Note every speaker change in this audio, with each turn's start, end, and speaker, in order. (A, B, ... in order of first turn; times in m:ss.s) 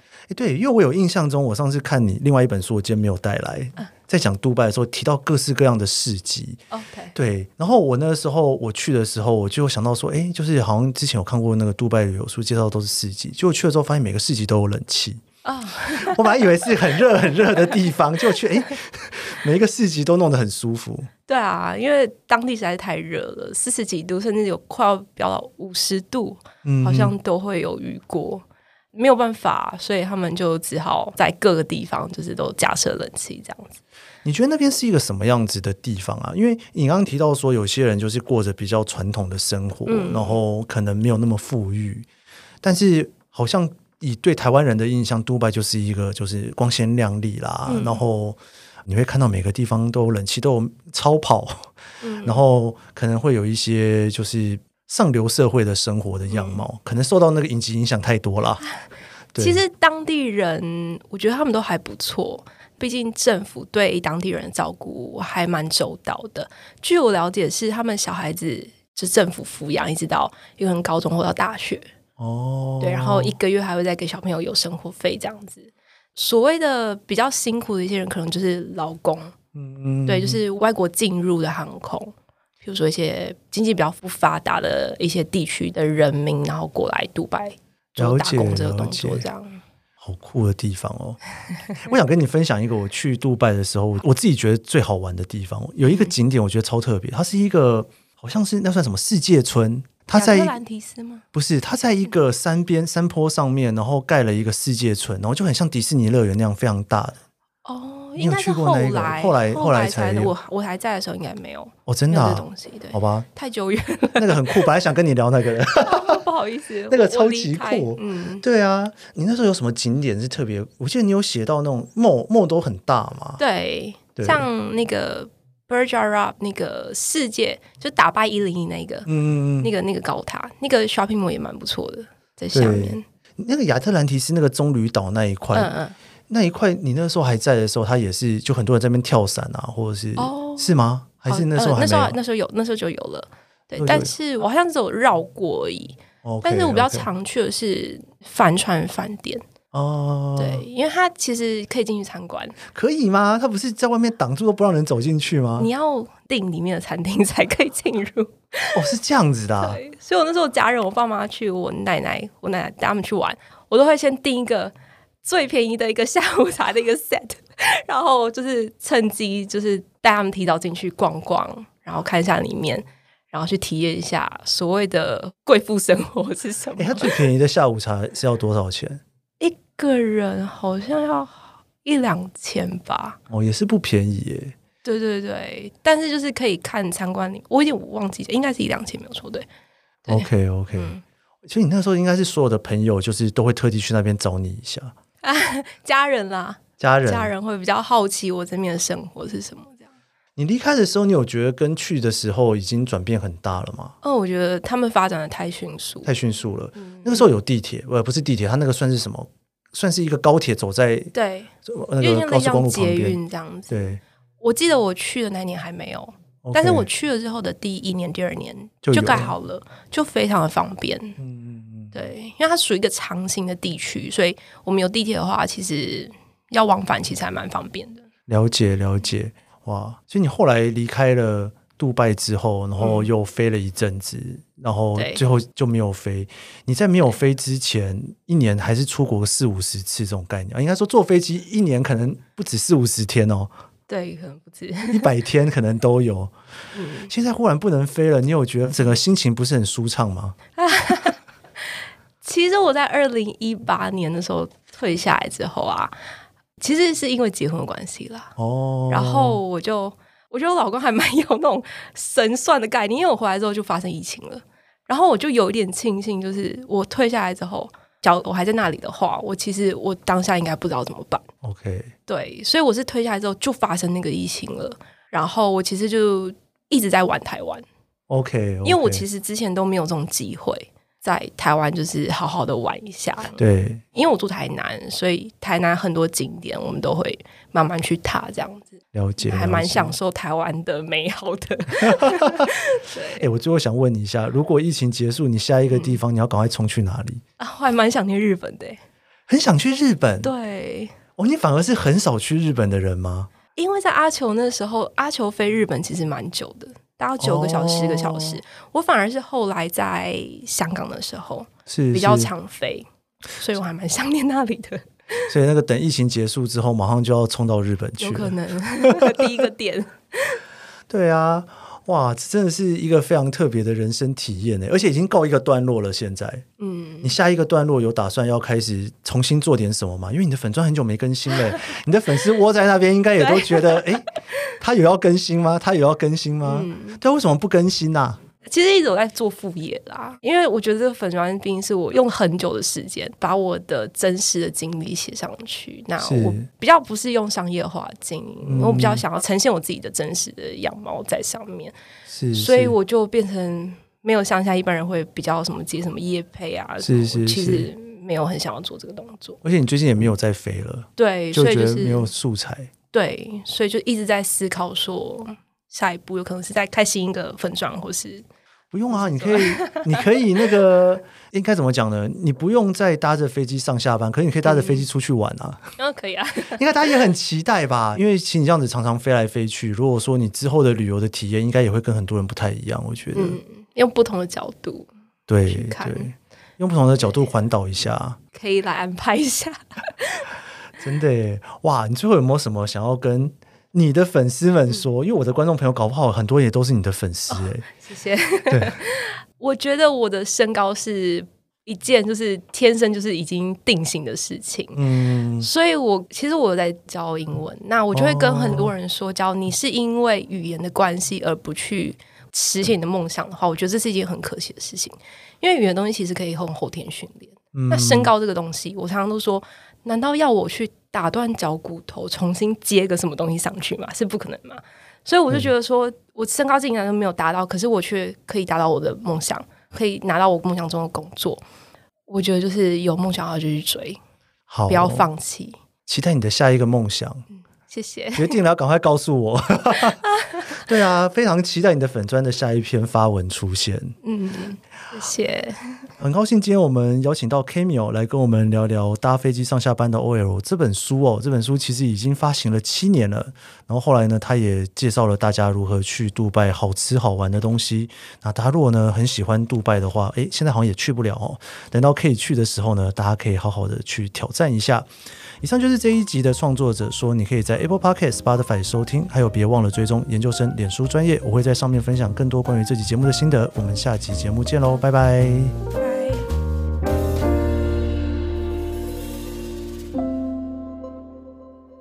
0:00.3-0:06.6 A
0:06.7-0:07.1 B
0:07.1-0:15.2 A
0:15.4-0:16.5 B
0:15.8-0:21.1 A
0:21.3-0:33.8 B
0:26.6-0:27.1 A
0:34.2-0:42.1 A
0:39.9-0:40.4 B
0:42.6-0:58.6 A
0:47.6-0:48.0 B
0:52.0-0:52.4 B
0:56.3-0:56.6 B
0:59.3-0:59.6 A
0:59.4-1:11.9 B
1:12.2-1:13.4 A
1:12.8-1:19.4 B
1:19.5-1:20.4 A
1:20.1-1:29.6 B
1:28.0-1:29.2 A
1:30.0-1:40.6 A
1:35.8-1:36.1 B
1:40.1-1:41.2 B
1:41.3-1:47.2 A
1:47.6-1:54.7 B
1:48.2-1:50.3 A
1:51.8-1:53.3 A
1:54.2-1:56.2 A
1:55.7-1:58.4 B
1:56.9-2:03.4 A
2:03.4-2:09.1 B
2:04.2-2:04.5 A
2:09.0-2:09.7 A
2:09.6-2:13.0 B
2:12.5-2:15.7 A
2:15.5-2:16.0 B
2:16.3-2:22.2 A
2:20.2-2:29.4 B
2:23.8-2:24.1 A
2:26.2-2:27.1 A
2:29.7-2:30.6 A
2:30.4-2:32.6 B
2:32.7-2:35.7 A
2:35.6-2:38.8 B
2:38.7-2:39.8 A
2:39.6-2:57.3 B
2:56.8-2:59.0 A
2:59.4-3:03.2 B
3:03.3-3:04.5 A
3:04.8-3:09.4 B
3:10.0-3:11.0 B
3:10.1-3:10.9 A
3:11.5-3:14.9 A
3:15.2-3:19.9 B
3:16.8-3:17.3 A
3:20.4-3:24.0 A
3:24.0-3:26.1 B
3:26.0-3:31.1 A
3:26.8-3:27.3 B
3:31.1-3:33.8 B
3:31.6-3:34.0 A
3:34.4-3:41.2 B
3:36.4-3:36.9 A
3:38.8-3:39.3 A
3:41.2-3:41.9 A
3:41.9-3:48.1 B
3:48.3-4:03.5 A
3:52.8-3:53.1 B
3:55.0-3:55.2 B
4:03.9-4:05.1 B
4:04.9-4:06.3 A
4:06.7-4:07.1 B
4:07.1-4:10.4 A
4:10.6-4:11.2 B
4:12.2-4:15.9 B
4:16.6-4:18.3 B
4:18.4-4:19.4 A
4:18.9-4:31.2 B
4:31.4-4:31.9 A
4:32.1-4:37.6 B
4:38.1-4:39.0 A
4:38.6-4:43.4 B
4:43.4-4:43.8 A
4:43.9-4:53.2 B
4:48.9-4:49.9 A
4:51.8-4:52.5 A
4:53.2-4:57.2 A
4:55.7-4:56.0 B
4:57.4-4:58.8 B
4:59.3-5:00.3 A
5:00.2-5:01.0 B
5:01.2-5:03.3 A
5:03.6-5:15.3 B
5:07.2-5:08.4 A
5:11.7-5:12.3 A
5:15.3-5:19.4 A
5:18.0-5:20.4 B
5:20.9-5:26.4 A
5:26.6-5:27.1 B
5:27.0-5:34.1 A
5:33.2-5:34.5 B
5:34.6-5:38.2 A
5:36.4-5:37.0 B
5:38.4-5:51.7 B
5:46.0-5:46.4 A
5:48.4-5:49.0 A
5:52.1-5:52.7 A
5:52.3-5:59.4 B
5:56.8-5:57.7 A
5:59.4-6:02.7 A
6:01.0-6:02.1 B
6:02.9-6:08.2 B
6:08.7-6:15.7 A
6:08.9-6:10.2 B
6:14.4-6:14.8 B
6:15.8-6:16.9 B
6:16.6-6:23.4 A
6:23.1-6:24.9 B
6:25.3-6:28.2 A
6:25.5-6:26.1 B
6:28.3-6:30.3 B
6:30.8-6:37.7 A
6:37.3-6:44.8 B
6:38.5-6:38.8 A
6:44.7-6:45.5 A
6:45.4-7:11.4 B
6:47.9-6:48.7 A
6:57.5-6:58.1 A
7:12.1-7:14.0 B
7:14.5-7:15.1 A
7:14.7-7:15.6 B
7:15.8-7:17.2 A
7:17.7-7:18.4 B
7:18.1-7:24.0 A
7:20.1-7:20.6 B
7:24.0-7:25.8 B
7:26.0-7:44.9 A
7:45.4-7:55.6 A
7:55.8-7:56.3 B